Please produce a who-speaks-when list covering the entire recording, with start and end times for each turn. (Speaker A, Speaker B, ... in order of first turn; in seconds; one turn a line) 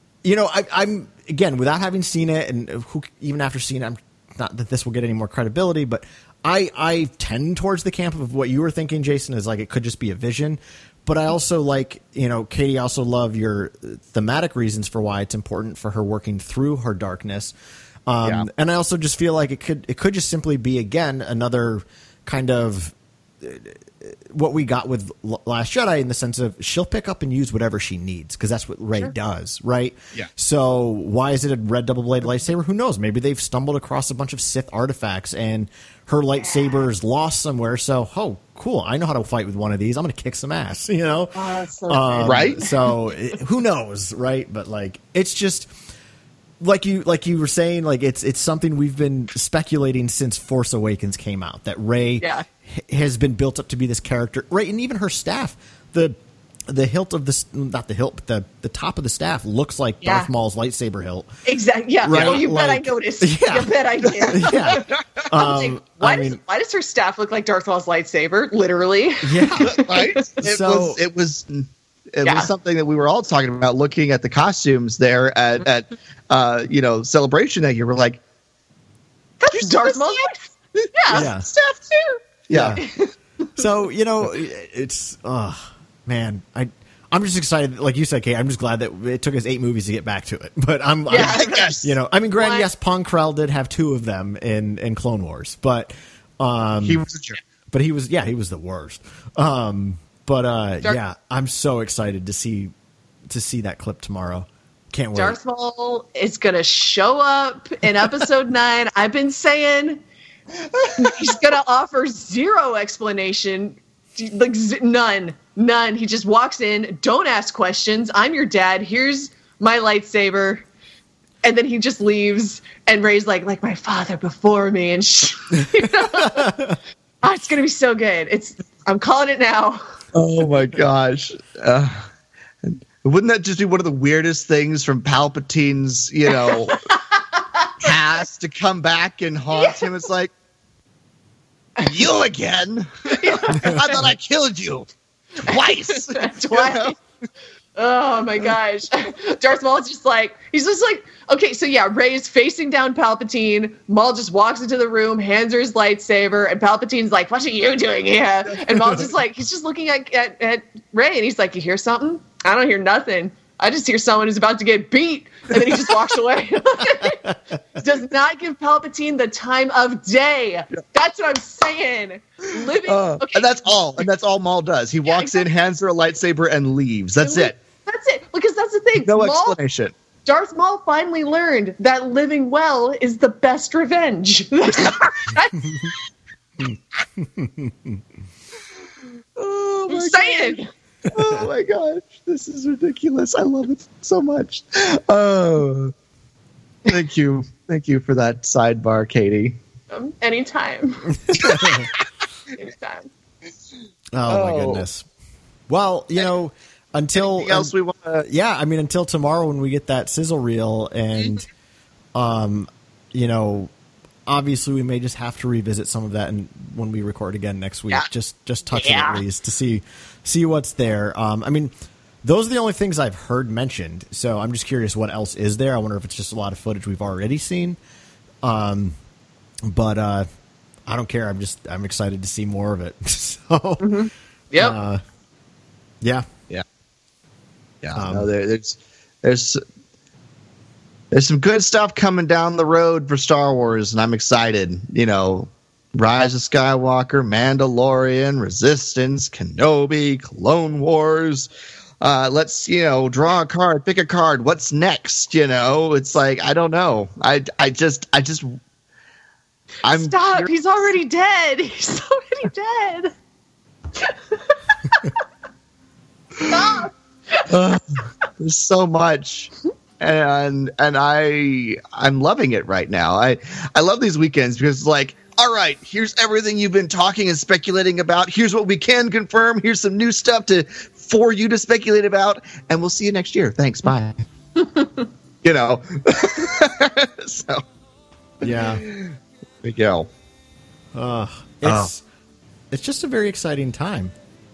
Speaker A: 0.2-17.5
Speaker A: 18.1-45.7
Speaker B: 18.2-18.5
Speaker C: 41.3-42.9
Speaker B: 42.2-42.6
Speaker A: 46.6-56.2
Speaker C: 52.2-52.5
Speaker A: 56.7-61.3
Speaker C: 60.0-60.3
Speaker C: 61.4-70.2
Speaker A: 62.0-66.4
Speaker B: 62.1-62.4
Speaker B: 64.9-65.2
Speaker A: 69.2-69.8
Speaker B: 69.7-78.2
Speaker A: 70.4-71.0
Speaker C: 72.2-72.5
Speaker C: 79.4-81.3
Speaker B: 79.5-80.3
Speaker B: 80.8-81.8
Speaker A: 81.1-81.5
Speaker C: 81.9-82.2
Speaker B: 82.5-82.8
Speaker A: 82.5-82.8
Speaker C: 82.8-83.1
Speaker A: 83.5-97.0
Speaker C: 91.1-92.7
Speaker B: 91.1-91.8
Speaker B: 96.8-97.4
Speaker A: 97.7-102.7
Speaker A: 103.3-105.4
Speaker C: 105.2-110.0
Speaker C: 110.9-120.6
Speaker C: 121.4-126.5
Speaker A: 126.1-126.8
Speaker C: 127.2-129.8
Speaker B: 130.1-132.1
Speaker B: 132.6-136.8
Speaker C: 136.3-137.9
Speaker B: 137.8-140.3
Speaker C: 139.5-139.9
Speaker B: 141.8-144.9
Speaker C: 143.1-144.0
Speaker B: 145.4-146.9
Speaker C: 146.1-146.9
Speaker C: 147.8-173.8
Speaker B: 158.6-159.0
Speaker A: 167.1-167.3
Speaker B: 172.8-177.5
Speaker C: 175.1-175.5
Speaker C: 177.2-179.6
Speaker B: 179.0-179.9
Speaker C: 180.2-185.9
Speaker A: 186.6-188.0
Speaker B: 189.4-190.6
Speaker C: 189.9-190.7
Speaker B: 191.1-195.9
Speaker A: 191.2-191.4
Speaker B: 196.8-199.6
Speaker C: 199.9-201.1
Speaker A: 201.2-201.9
Speaker C: 202.6-203.1
Speaker A: 204.1-205.1
Speaker B: 204.3-204.8
Speaker A: 205.7-211.4
Speaker B: 207.2-208.2
Speaker A: 212.1-213.7
Speaker A: 214.2-221.7
Speaker C: 218.7-219.2
Speaker A: 222.2-227.8
Speaker A: 228.4-228.9
Speaker A: 229.6-230.3
Speaker A: 230.9-234.0
Speaker C: 233.8-234.8
Speaker A: 234.5-235.0
Speaker A: 236.0-236.3
Speaker B: 237.8-239.6
Speaker A: 237.9-238.3
Speaker B: 241.1-251.5
Speaker B: 252.0-258.6
Speaker B: 259.8-260.5
Speaker C: 259.9-263.1
Speaker C: 264.0-265.1
Speaker C: 266.5-267.5
Speaker B: 267.5-284.2
Speaker C: 284.6-285.0
Speaker B: 285.4-287.6
Speaker A: 288.4-288.8
Speaker B: 288.4-290.1
Speaker A: 290.9-292.0
Speaker B: 291.6-291.9
Speaker A: 292.7-294.1